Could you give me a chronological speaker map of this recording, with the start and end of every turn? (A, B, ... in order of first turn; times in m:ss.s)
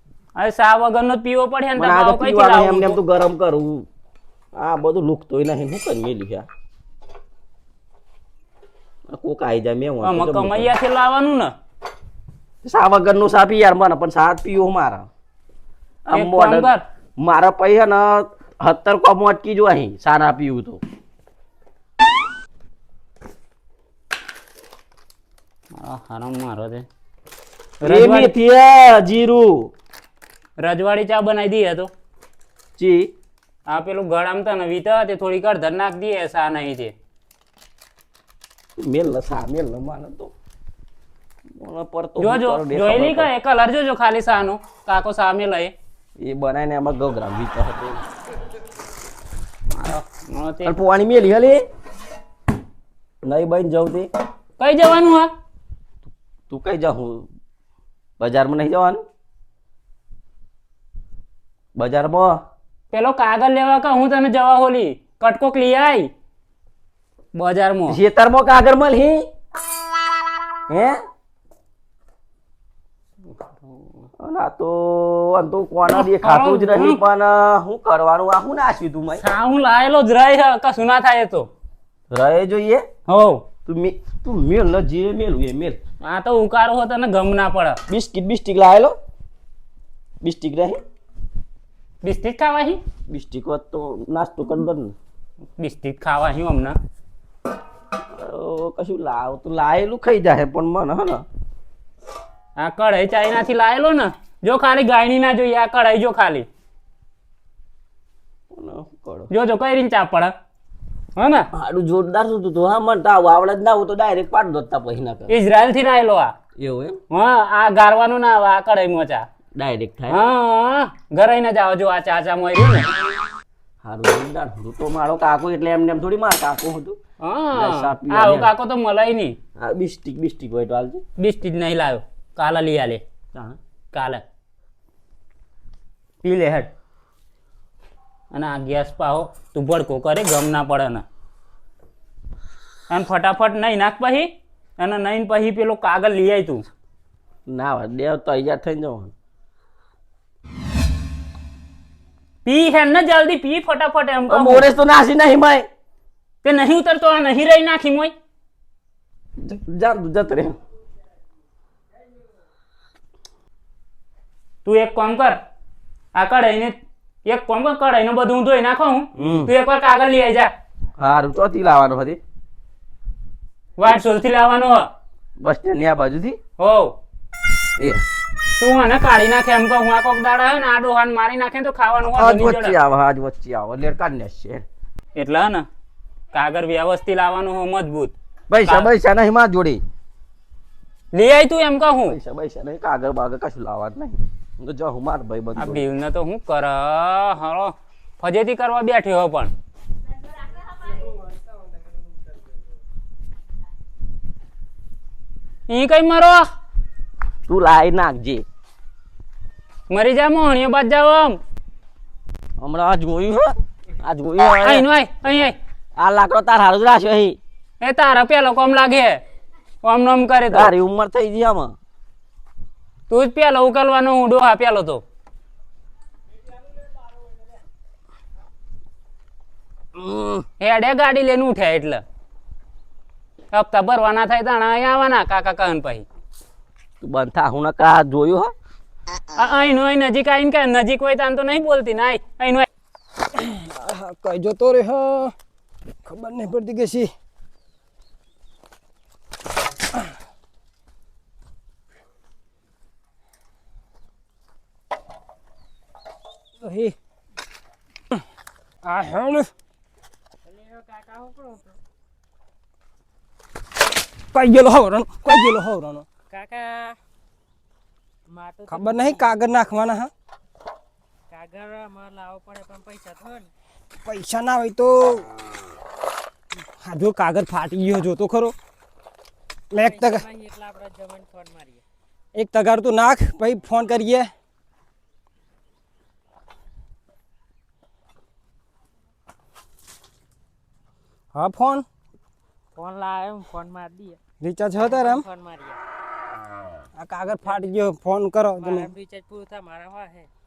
0:00.4-0:03.0 A
0:01.8-0:03.9 B
0:04.6-0:06.5 B
0:09.1-0:10.7 B
0:10.0-0:11.5 A
0:12.6-0:15.1 B
0:16.1-0:20.8 B
0:16.1-0:16.8 A
0:25.8-0:26.9 A
0:27.8-0:29.7 B
0:27.8-0:28.3 A
0:30.6-0:31.9 A
0:32.8-0:33.1 B
0:33.7-0:36.9 A
0:38.8-0:40.3 B
0:41.6-0:43.3 B
0:42.2-0:45.7 A
0:46.2-0:48.0 B
0:49.7-0:50.7 A
0:50.6-0:51.6 B
0:53.2-0:54.1 B
0:54.6-0:55.3 A
0:56.5-0:57.3 B
0:58.2-0:59.0 B
1:01.8-1:02.4 B
1:02.9-1:06.1 A
1:07.4-1:08.0 A
1:07.9-1:09.2 B
1:10.7-1:11.0 B
1:14.2-1:19.2 B
1:15.9-1:17.0 A
1:19.2-1:21.5 A
1:22.1-1:22.8 B
1:23.1-1:23.4 A
1:23.7-1:25.8 B
1:26.0-1:27.8 A
1:27.9-1:28.9 B
1:30.2-1:30.8 B
1:32.0-1:32.8 A
1:33.1-1:34.9 B
1:35.6-1:36.8 A
1:38.2-1:41.2 B
1:42.6-1:46.5 A
1:48.5-1:49.3 B
1:49.3-1:50.3 A
1:51.2-1:51.5 A
1:51.5-1:55.3 B
1:55.3-1:56.3 A
1:56.6-1:57.0 B
1:57.1-1:59.3 A
1:59.6-2:00.2 B
2:00.1-2:02.9 A
2:03.8-2:07.0 B
2:07.2-2:09.4 A
2:07.6-2:08.5 B
2:09.6-2:11.0 B
2:11.2-2:13.0 A
2:13.9-2:14.2 A
2:16.2-2:16.7 A
2:18.3-2:21.0 A
2:22.9-2:26.7 A
2:27.5-2:29.1 B
2:32.4-2:34.7 A
2:34.3-2:35.7 B
2:36.4-2:38.1 A
2:39.4-2:40.6 B
2:44.6-2:45.4 A
2:46.2-2:50.5 A
2:49.2-2:49.5 B
2:51.0-2:52.2 B
2:53.8-2:54.9 A
2:55.4-2:56.4 B
2:56.6-2:57.0 A
2:58.6-3:02.8 A
3:02.2-3:04.6 B
3:05.2-3:05.7 A
3:06.3-3:08.1 A
3:08.5-3:09.8 B
3:11.1-3:12.2 A
3:12.1-3:15.8 B
3:15.6-3:19.5 A
3:25.7-3:26.5 A
3:27.5-3:28.4 B
3:29.9-3:31.4 A
3:32.6-3:34.8 B
3:34.6-3:35.6 A
3:36.0-3:37.4 B
3:37.8-3:39.2 A
3:39.8-3:40.7 A
3:40.5-3:41.8 B
3:43.1-3:45.0 A
3:50.0-3:50.4 B
3:50.6-3:52.0 A
3:53.5-3:56.1 A
3:57.0-3:58.5 B
3:59.4-4:02.7 A
4:03.3-4:05.3 C
4:06.0-4:07.1 C
4:16.6-4:17.0 C
4:18.8-4:19.5 C
4:20.5-4:21.8 D
4:24.3-4:26.1 C
4:26.3-4:27.0 D
4:28.3-4:29.3 D
4:28.7-4:30.1 C
4:31.3-4:33.5 D
4:34.1-4:35.3 C
4:36.8-4:38.6 C
4:39.7-4:40.3 C
4:39.8-4:41.8 D
4:42.3-4:44.3 C
4:51.4-4:51.9 C
4:52.8-4:54.2 D
4:54.4-4:55.2 C
4:54.8-4:55.8 D
4:57.0-4:58.9 C
4:58.6-5:00.3 D